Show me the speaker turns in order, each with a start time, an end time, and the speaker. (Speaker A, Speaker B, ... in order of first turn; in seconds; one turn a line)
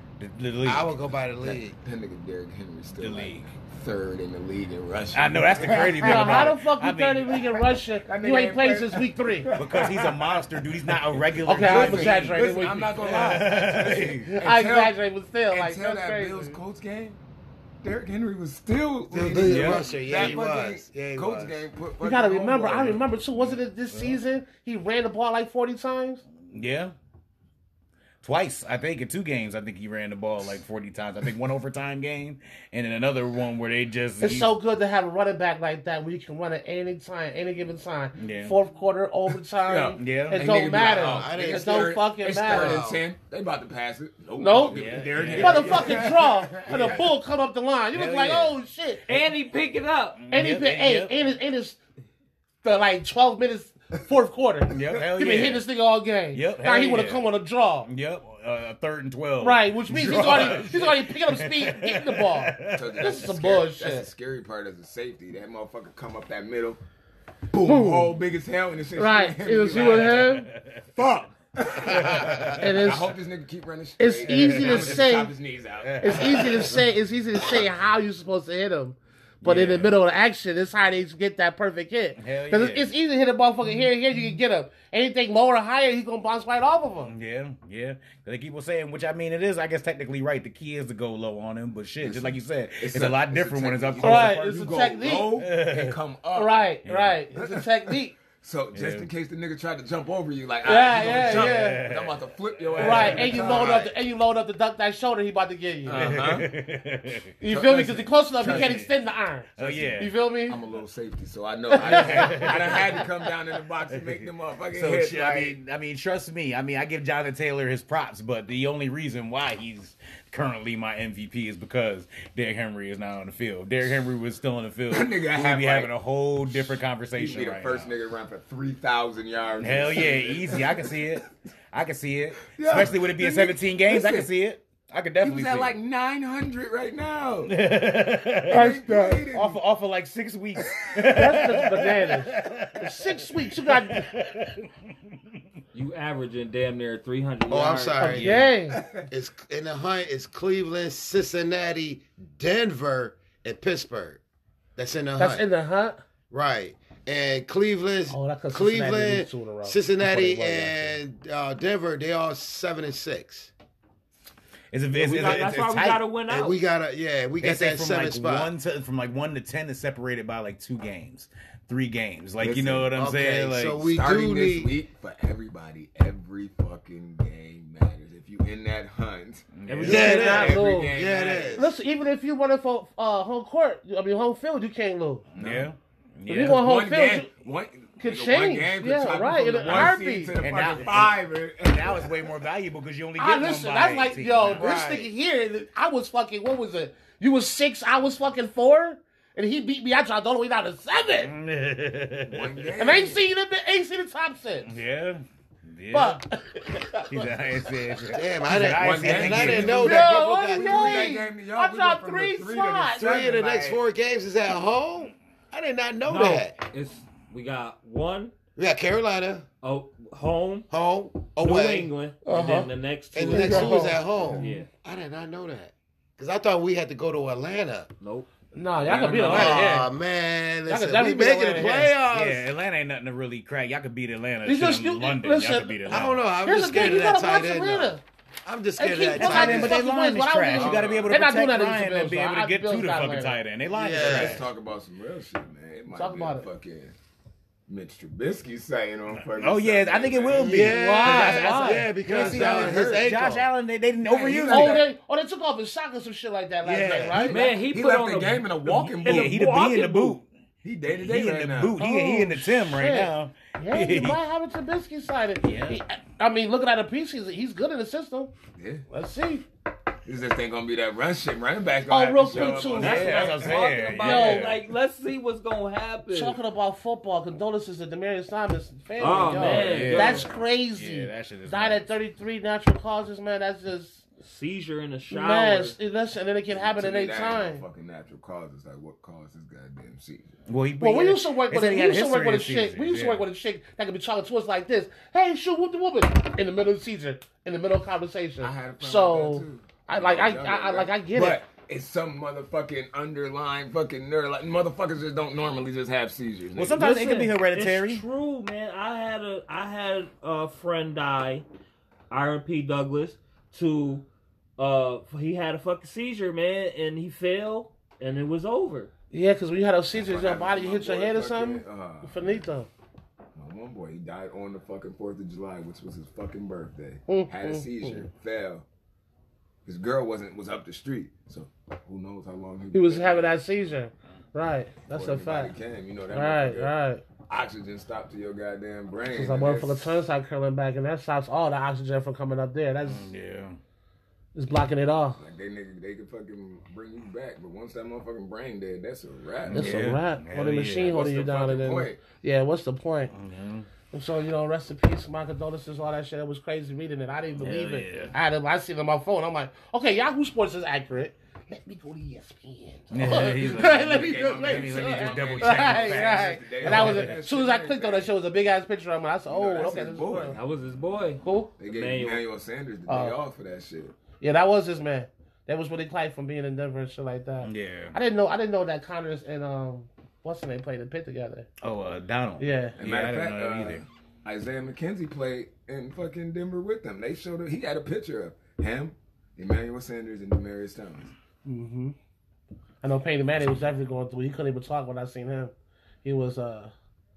Speaker A: 0.2-0.9
Speaker B: 0.6-1.8
Speaker C: 1.4-6.5
Speaker A: 3.0-3.5
Speaker A: 5.1-7.4
Speaker D: 6.0-9.5
Speaker C: 8.0-15.0
Speaker A: 9.6-14.3
Speaker D: 11.4-13.4
Speaker D: 14.3-16.6
Speaker C: 15.5-17.2
Speaker C: 17.8-23.0
Speaker B: 19.1-21.7
Speaker A: 19.4-20.3
Speaker D: 22.0-26.2
Speaker A: 26.5-26.9
Speaker A: 28.2-34.5
Speaker D: 34.2-42.9
Speaker A: 38.2-38.5
Speaker C: 39.6-47.1
Speaker A: 40.0-40.4
Speaker B: 41.0-43.0
Speaker D: 44.4-49.1
Speaker A: 44.7-46.1
Speaker A: 47.9-49.3
Speaker E: 49.1-50.2
Speaker A: 50.2-51.2
Speaker D: 50.3-51.8
Speaker D: 52.6-57.9
Speaker A: 54.7-55.7
Speaker A: 56.3-57.3
Speaker A: 57.9-63.2
Speaker D: 59.4-64.1
Speaker C: 60.1-60.7
Speaker C: 62.7-66.8
Speaker C: 67.5-70.3
Speaker D: 67.6-68.1
Speaker D: 69.0-70.5
Speaker A: 69.7-70.9
Speaker C: 71.0-76.8
Speaker A: 71.8-72.8
Speaker D: 72.6-73.1
Speaker D: 74.0-75.3
Speaker A: 74.3-75.2
Speaker A: 75.8-76.8
Speaker D: 76.0-87.1
Speaker A: 79.4-80.0
Speaker A: 82.2-82.9
Speaker A: 87.0-94.7
Speaker C: 92.0-96.6
Speaker D: 94.0-95.3
Speaker A: 95.3-96.0
Speaker D: 96.3-98.2
Speaker A: 96.8-97.2
Speaker C: 97.4-97.6
Speaker C: 98.3-103.9
Speaker A: 98.7-99.1
Speaker D: 100.7-101.8
Speaker A: 101.0-103.6
Speaker D: 102.8-106.1
Speaker C: 105.9-106.5
Speaker A: 106.0-107.3
Speaker D: 107.4-110.6
Speaker C: 107.5-108.9
Speaker A: 108.4-108.9
Speaker A: 109.6-110.1
Speaker C: 109.6-115.5
Speaker D: 111.7-112.9
Speaker A: 111.8-112.9
Speaker A: 114.7-127.9
Speaker C: 124.9-125.9
Speaker C: 126.5-131.2
Speaker A: 129.6-135.8
Speaker C: 132.5-134.3
Speaker C: 135.2-137.6
Speaker A: 137.5-145.1
Speaker C: 138.5-139.6
Speaker D: 138.5-139.3
Speaker D: 141.1-144.1
Speaker E: 145.7-148.2
Speaker B: 147.5-148.4
Speaker D: 148.0-148.8
Speaker A: 148.2-148.5
Speaker C: 148.7-149.1
Speaker B: 149.1-154.2
Speaker B: 154.8-155.5
Speaker D: 155.2-156.0
Speaker B: 156.3-163.5
Speaker D: 158.1-160.9
Speaker A: 164.7-166.1
Speaker E: 165.0-166.6
Speaker B: 166.2-168.5
Speaker A: 167.4-173.9
Speaker B: 172.6-174.7
Speaker C: 173.8-181.7
Speaker A: 179.5-180.6
Speaker E: 179.7-180.4
Speaker D: 179.8-180.9
Speaker B: 179.8-181.7
Speaker D: 181.5-185.2
Speaker A: 185.3-186.7
Speaker C: 185.4-185.7
Speaker D: 186.3-187.3
Speaker C: 186.4-192.2
Speaker D: 188.0-190.3
Speaker A: 189.6-194.8
Speaker D: 193.2-201.3
Speaker B: 194.6-195.0
Speaker A: 201.2-202.6
Speaker C: 202.3-203.2
Speaker D: 202.8-204.8
Speaker A: 204.7-206.2
Speaker D: 205.9-207.2
Speaker A: 206.9-209.9
Speaker B: 208.1-211.2
Speaker C: 208.6-213.8
Speaker D: 209.6-213.2
Speaker B: 213.0-216.6
Speaker E: 216.1-218.3
Speaker B: 218.6-219.5
Speaker E: 219.6-220.7
Speaker B: 220.7-221.9
Speaker E: 221.4-224.7
Speaker D: 222.2-222.7
Speaker B: 223.1-227.9
Speaker D: 223.2-224.6
Speaker E: 228.0-229.8
Speaker D: 228.5-229.9
Speaker A: 228.9-229.6
Speaker B: 229.1-232.4
Speaker D: 230.7-231.9
Speaker A: 232.1-236.2
Speaker D: 234.4-238.0
Speaker B: 235.9-239.8
Speaker D: 238.8-243.4
Speaker A: 239.1-244.4
Speaker C: 240.6-241.2
Speaker B: 243.7-244.4
Speaker C: 244.0-246.9
Speaker D: 245.9-246.5
Speaker C: 247.7-250.6
Speaker A: 249.2-254.8
Speaker B: 250.4-253.5
Speaker D: 250.6-251.9
Speaker C: 252.1-253.1
Speaker C: 254.0-254.9
Speaker D: 254.5-257.4
Speaker A: 256.7-257.3
Speaker B: 256.7-257.3
Speaker E: 257.2-260.2
Speaker C: 257.3-259.4
Speaker A: 259.1-260.3
Speaker C: 260.6-261.8
Speaker A: 260.9-264.2
Speaker D: 261.8-268.3
Speaker A: 265.4-265.8
Speaker C: 268.6-268.9
Speaker D: 268.9-269.4
Speaker C: 270.1-273.6
Speaker D: 271.9-274.5
Speaker E: 272.3-276.4
Speaker A: 272.8-274.6
Speaker D: 276.1-284.0
Speaker E: 279.0-280.3
Speaker A: 279.4-281.8
Speaker E: 284.2-285.8
Speaker D: 285.1-287.6
Speaker C: 286.5-290.4
Speaker A: 290.5-293.3
Speaker D: 290.8-301.4
Speaker C: 298.4-306.9
Speaker A: 306.6-308.1
Speaker E: 306.7-311.4
Speaker E: 312.1-314.1
Speaker E: 314.6-318.9
Speaker D: 319.1-322.7
Speaker C: 319.9-322.4
Speaker C: 323.4-328.6
Speaker D: 327.1-328.1
Speaker C: 329.6-333.4
Speaker D: 332.7-335.5
Speaker C: 334.9-336.7
Speaker D: 336.1-337.0
Speaker C: 337.3-339.9
Speaker D: 339.1-343.1
Speaker A: 342.9-343.6
Speaker D: 344.4-345.2
Speaker C: 345.2-349.8
Speaker A: 349.5-350.9
Speaker D: 349.5-353.1
Speaker C: 350.8-352.0
Speaker A: 353.1-353.7
Speaker D: 353.9-370.4
Speaker A: 357.4-358.1
Speaker A: 362.9-367.2
Speaker C: 363.4-368.1
Speaker C: 369.3-370.4
Speaker E: 370.3-372.2
Speaker D: 371.2-371.5
Speaker C: 371.6-374.0
Speaker D: 372.9-373.2
Speaker D: 374.2-381.5
Speaker A: 377.4-378.0
Speaker A: 381.6-383.8
Speaker D: 382.4-382.8
Speaker C: 382.8-391.1
Speaker D: 391.4-392.0
Speaker D: 392.8-395.5
Speaker D: 396.0-396.7